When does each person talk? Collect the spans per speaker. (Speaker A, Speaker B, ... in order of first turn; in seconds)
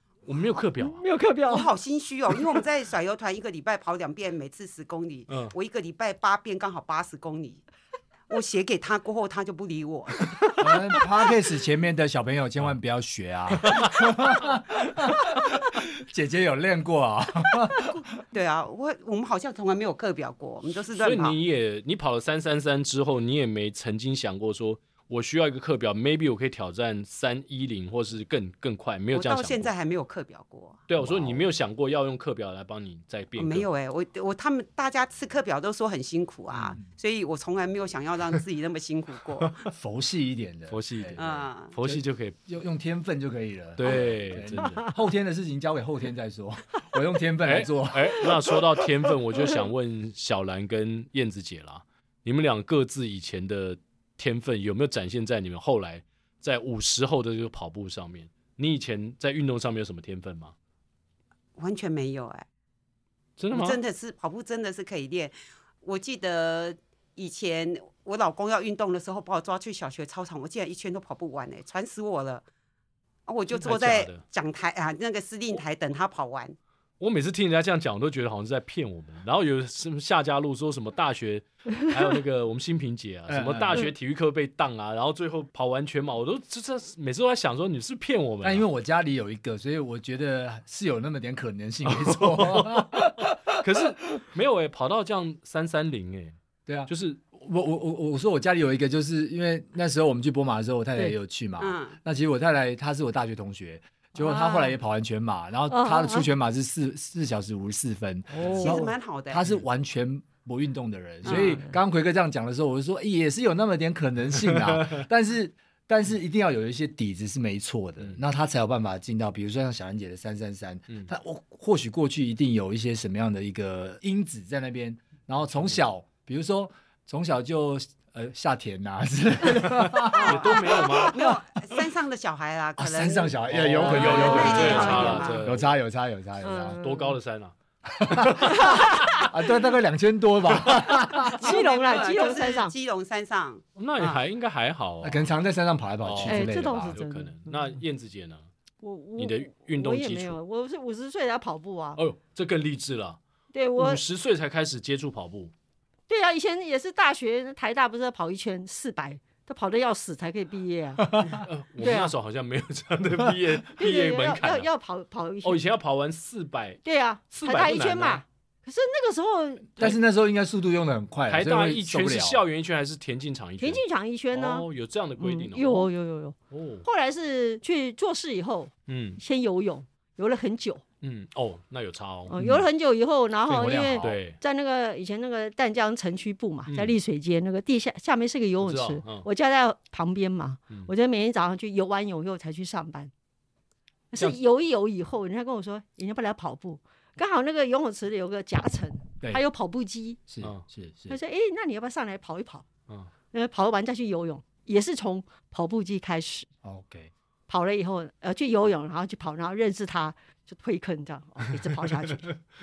Speaker A: 0.2-1.0, 5.3-5.5, 13.6-14.0, 20.9-29.7, 30.9-33.7, 40.7-42.4, 43.8-44.9, 47.4-60.5, 63.4-63.8, 73.5-74.2, 77.0-88.6, 91.8-96.4, 96.9-97.2, 114.5-115.0, 129.8-131.2, 133.5-135.7, 136.8-137.5, 138.1-138.8, 143.8-145.3, 146.0-148.5, 149.2-150.4, 151.9-153.2, 153.8-155.5, 161.3-164.7, 165.4-168.2, 171.3-175.9, 176.5-176.8, 178.9-179.2, 181.0-182.3, 184.0-184.4, 186.7-186.9, 188.6-189.3
Speaker B: 0.8-1.7, 104.2-104.8, 105.7-106.3, 108.3-108.8, 111.3-111.7, 134.2-135.3, 136.4-137.1, 138.4-139.2, 141.3-142.7, 146.2-147.5, 148.8-152.0, 153.5-154.0, 156.1-161.1, 161.8-162.1, 163.8-165.6, 166.8-169.9, 173.6-174.7, 175.2-180.8, 182.3-193.1, 194.1-200.2, 201.1-202.7, 203.3-206.5, 207.5-212.3
Speaker C: 1.5-7.6, 8.3-10.7, 18.3-21.4, 29.1-30.8, 33.4-39.6, 41.2-41.7, 61.6-62.4, 63.5-72.4, 73.3-76.5, 101.6-102.0, 108.5-109.4, 111.2-111.6, 130.1-135.4, 141.2-144.2
Speaker D: 10.6-18.0, 31.0-31.5, 36.5-36.9, 39.7-48.6, 83.3-83.9, 88.4-93.6, 96.7-131.0, 132.8-136.8, 137.9-141.6, 145.0-146.9, 161.0-161.4, 169.8-172.4, 182.4-182.7, 183.5-184.2, 200.3-201.2, 206.6-207.1